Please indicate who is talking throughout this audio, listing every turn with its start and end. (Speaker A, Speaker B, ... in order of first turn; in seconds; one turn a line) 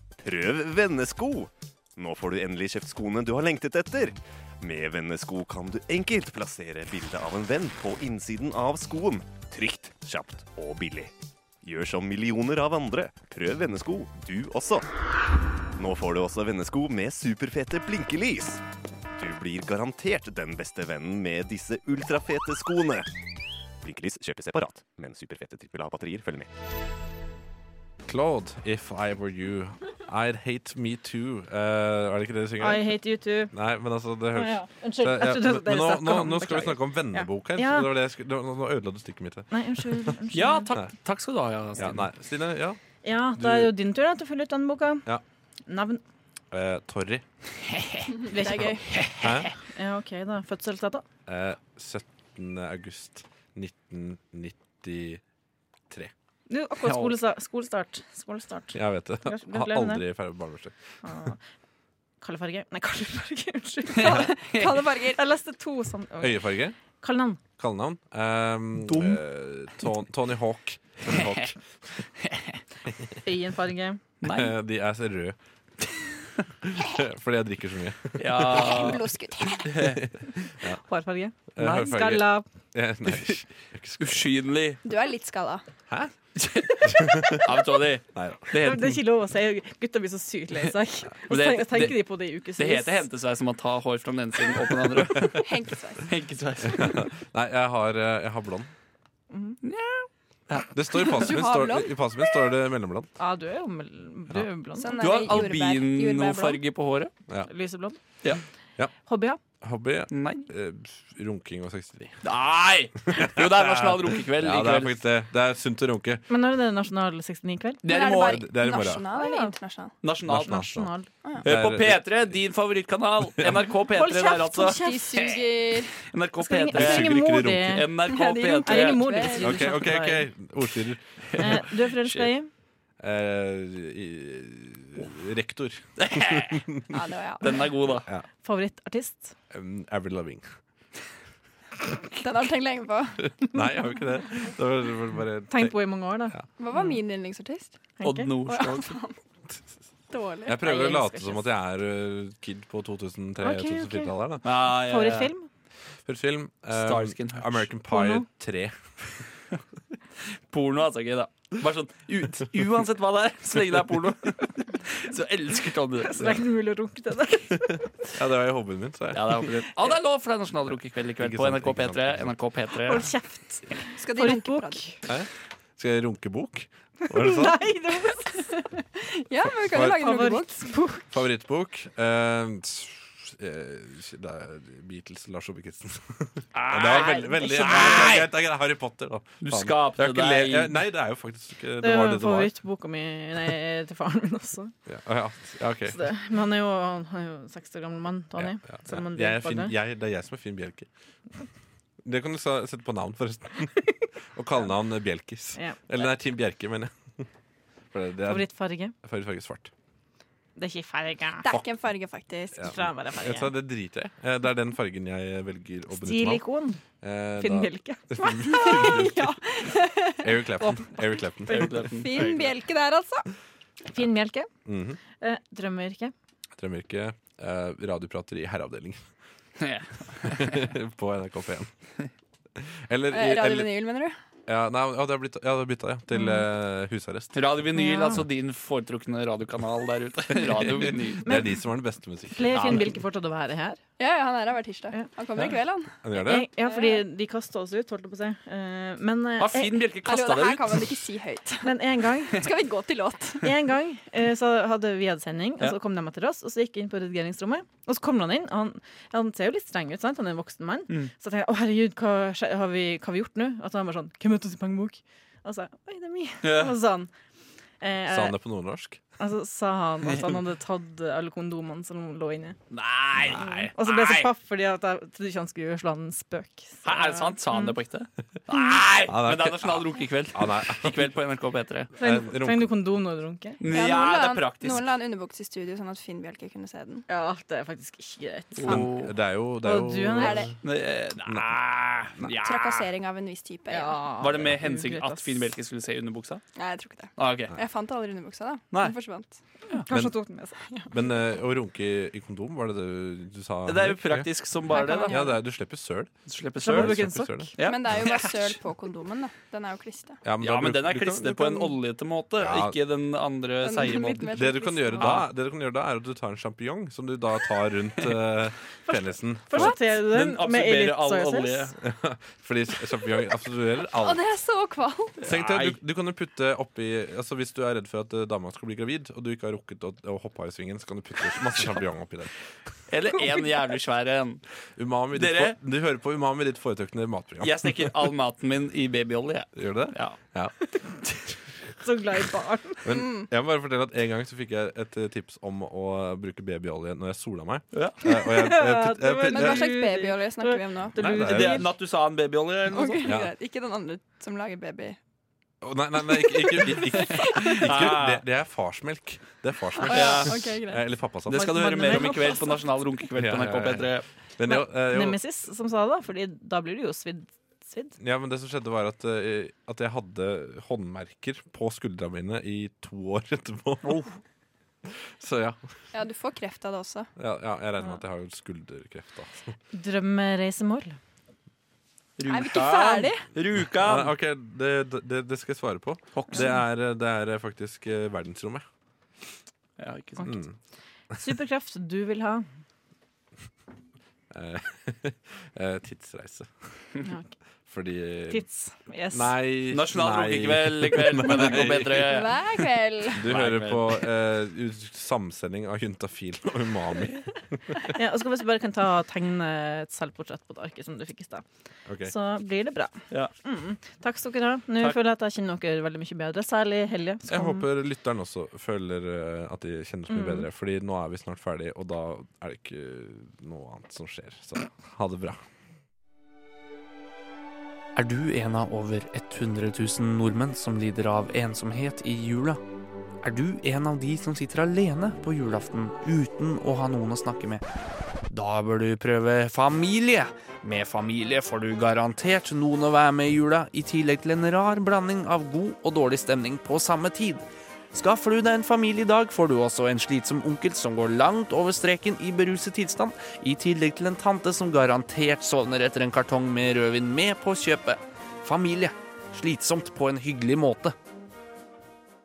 Speaker A: 0.2-14.9
Speaker A: 15.8-18.6
Speaker A: 19.2-23.1
Speaker A: 23.8-26.5
Speaker B: 28.1-33.0
Speaker C: 32.6-33.5
Speaker B: 33.5-40.1
Speaker C: 34.3-37.9
Speaker C: 39.5-40.7
Speaker D: 40.3-42.0
Speaker B: 41.8-42.8
Speaker C: 43.0-45.1
Speaker B: 43.4-43.7
Speaker C: 45.7-46.0
Speaker B: 46.5-47.2
Speaker D: 47.7-48.1
Speaker E: 48.1-48.9
Speaker C: 48.3-48.8
Speaker D: 48.9-49.5
Speaker B: 49.2-49.5
Speaker C: 49.6-51.0
Speaker B: 51.3-55.2
Speaker C: 56.5-60.0
Speaker D: 56.9-57.2
Speaker B: 58.7-61.1
Speaker C: 61.0-61.4
Speaker C: 62.2-64.3
Speaker D: 64.0-64.8
Speaker E: 64.0-65.2
Speaker C: 65.1-67.4
Speaker B: 66.2-66.8
Speaker B: 67.6-71.6
Speaker D: 68.8-69.2
Speaker D: 71.1-71.5
Speaker D: 72.2-72.6
Speaker C: 73.2-74.0
Speaker D: 74.2-74.5
Speaker B: 74.2-75.4
Speaker B: 76.6-78.6
Speaker D: 78.2-80.0
Speaker E: 78.4-79.9
Speaker B: 80.0-80.8
Speaker C: 80.8-82.5
Speaker B: 81.5-84.3
Speaker D: 84.0-84.8
Speaker E: 84.8-85.6
Speaker D: 86.4-89.0
Speaker B: 86.8-87.4
Speaker B: 88.2-88.6
Speaker C: 88.6-93.1
Speaker D: 91.3-95.4
Speaker E: 95.4-96.1
Speaker D: 96.0-97.1
Speaker B: 96.7-98.7
Speaker C: 99.3-99.6
Speaker D: 99.6-101.2
Speaker B: 100.7-103.1
Speaker E: 101.0-102.0
Speaker C: 103.2-105.1
Speaker E: 104.8-106.6
Speaker D: 105.0-107.1
Speaker C: 107.5-108.0
Speaker C: 109.1-109.4
Speaker B: 109.6-112.2
Speaker D: 110.1-110.5
Speaker D: 112.2-115.0
Speaker B: 113.1-116.2
Speaker C: 116.3-117.8
Speaker D: 117.8-118.4
Speaker E: 117.9-120.0
Speaker B: 117.9-119.0
Speaker C: 119.1-119.6
Speaker D: 120.0-120.6
Speaker B: 120.3-122.3
Speaker C: 120.5-121.1
Speaker D: 121.4-129.3
Speaker C: 123.9-125.1
Speaker E: 124.7-126.0
Speaker C: 126.4-127.9
Speaker B: 126.7-127.8
Speaker E: 128.1-129.6
Speaker C: 128.6-130.3
Speaker B: 129.4-132.3
Speaker C: 131.4-132.5
Speaker B: 133.0-136.8
Speaker D: 136.0-136.6
Speaker E: 136.9-137.7
Speaker D: 137.4-138.1
Speaker C: 138.4-139.3
Speaker B: 139.5-140.5
Speaker E: 142.2-143.3
Speaker B: 143.4-145.8
Speaker C: 145.5-146.3
Speaker E: 146.6-147.8
Speaker C: 148.0-148.3
Speaker D: 148.0-149.0
Speaker E: 148.5-149.1
Speaker E: 150.1-150.6
Speaker B: 150.5-154.5
Speaker C: 150.6-151.4
Speaker C: 153.4-154.1
Speaker D: 154.4-155.3
Speaker C: 154.7-155.5
Speaker B: 156.1-158.8
Speaker D: 156.7-157.7
Speaker C: 157.9-158.3
Speaker D: 160.5-166.5
Speaker C: 166.0-167.8
Speaker B: 167.7-169.4
Speaker D: 169.1-173.1
Speaker B: 171.2-172.3
Speaker C: 172.9-175.0
Speaker E: 174.0-174.9
Speaker B: 175.1-177.6
Speaker C: 177.1-178.5
Speaker E: 179.0-180.8
Speaker B: 179.6-180.0
Speaker C: 179.8-181.1
Speaker B: 181.1-192.5
Speaker D: 186.6-188.3
Speaker C: 186.9-187.9
Speaker D: 189.4-190.7
Speaker C: 191.8-194.7
Speaker B: 194.9-196.1
Speaker C: 195.9-199.7
Speaker B: 198.4-200.9
Speaker B: 202.0-207.2
Speaker C: 205.6-205.9
Speaker B: 207.9-209.7
Speaker C: 208.3-208.9
Speaker C: 210.6-211.6
Speaker E: 211.4-212.7
Speaker B: 212.6-216.4
Speaker C: 212.6-213.5
Speaker C: 215.9-216.8
Speaker B: 217.0-219.4
Speaker C: 217.4-218.9
Speaker E: 218.3-220.6
Speaker B: 220.2-222.2
Speaker D: 221.5-222.5
Speaker E: 221.8-223.3
Speaker C: 223.9-224.5
Speaker B: 224.7-225.0
Speaker C: 225.2-226.1
Speaker B: 226.6-229.0
Speaker D: 229.6-230.7
Speaker B: 230.2-231.7
Speaker B: 232.6-233.7
Speaker E: 233.1-234.2
Speaker B: 234.5-237.4
Speaker C: 236.1-236.4
Speaker D: 237.3-241.3
Speaker C: 237.8-238.2
Speaker B: 241.2-242.8
Speaker C: 241.2-241.6
Speaker C: 242.3-243.8
Speaker D: 242.5-242.8
Speaker E: 244.0-247.0
Speaker B: 246.0-246.5
Speaker C: 246.2-249.8
Speaker D: 249.4-251.0
Speaker E: 250.1-253.5
Speaker C: 251.6-252.4
Speaker C: 253.4-267.1
Speaker D: 266.4-266.8
Speaker C: 267.8-268.4
Speaker B: 268.1-269.0
Speaker C: 269.2-272.6
Speaker D: 272.7-274.3
Speaker B: 273.2-273.7
Speaker C: 273.8-277.8
Speaker D: 276.9-281.9
Speaker B: 279.1-281.1
Speaker B: 282.0-282.8
Speaker C: 282.0-283.6
Speaker D: 283.6-284.9
Speaker E: 283.7-287.1
Speaker C: 287.1-288.9
Speaker D: 288.6-289.1
Speaker B: 288.7-290.5
Speaker C: 289.6-290.5
Speaker E: 290.2-290.6
Speaker D: 290.6-292.9
Speaker E: 292.4-294.0
Speaker C: 293.7-295.4
Speaker D: 294.2-296.4
Speaker E: 296.6-299.4
Speaker D: 297.2-297.5
Speaker C: 299.7-300.9
Speaker B: 299.9-300.2
Speaker B: 300.9-304.3
Speaker D: 303.7-305.2
Speaker C: 304.7-305.3
Speaker E: 304.9-305.3
Speaker B: 305.1-307.5
Speaker D: 306.3-308.6
Speaker C: 306.6-307.5
Speaker E: 307.6-310.2
Speaker B: 310.2-311.7
Speaker D: 310.4-315.3
Speaker B: 312.4-312.8
Speaker E: 313.6-315.2
Speaker B: 314.2-319.7
Speaker C: 318.9-321.7
Speaker D: 319.6-321.8
Speaker B: 321.8-324.2
Speaker E: 323.8-325.2
Speaker B: 325.2-332.3
Speaker D: 325.2-325.8
Speaker D: 332.9-334.4
Speaker B: 334.8-337.9
Speaker D: 335.1-335.6
Speaker D: 337.4-340.2
Speaker B: 339.6-340.6
Speaker C: 341.8-342.9
Speaker B: 342.8-349.7
Speaker E: 342.9-343.3
Speaker C: 348.1-351.7
Speaker E: 349.3-351.1
Speaker B: 351.0-351.6
Speaker D: 351.2-353.1
Speaker E: 352.7-355.0
Speaker B: 355.6-361.7
Speaker E: 356.2-357.7
Speaker D: 357.4-358.2
Speaker E: 359.8-360.8
Speaker D: 359.8-360.4
Speaker D: 361.3-364.1
Speaker C: 361.3-362.5
Speaker B: 363.2-365.2
Speaker C: 364.4-368.0
Speaker B: 368.0-374.1
Speaker D: 373.9-374.1
Speaker B: 374.9-375.6
Speaker E: 375.9-377.1
Speaker B: 377.2-379.5
Speaker C: 379.7-381.0
Speaker D: 382.2-384.1
Speaker E: 382.3-383.3
Speaker B: 383.8-388.6
Speaker D: 386.1-386.5
Speaker D: 389.8-390.4
Speaker B: 390.2-390.5
Speaker C: 391.1-392.4
Speaker B: 394.3-396.5
Speaker B: 397.7-398.4
Speaker C: 398.3-399.3
Speaker B: 399.1-402.1
Speaker D: 399.7-404.0
Speaker E: 402.0-403.3
Speaker B: 403.1-407.2
Speaker C: 407.8-411.4
Speaker B: 411.9-412.1
Speaker C: 412.1-417.7
Speaker B: 417.3-425.4
Speaker C: 420.1-420.5
Speaker D: 428.0-432.6
Speaker D: 433.2-437.6
Speaker D: 438.3-460.9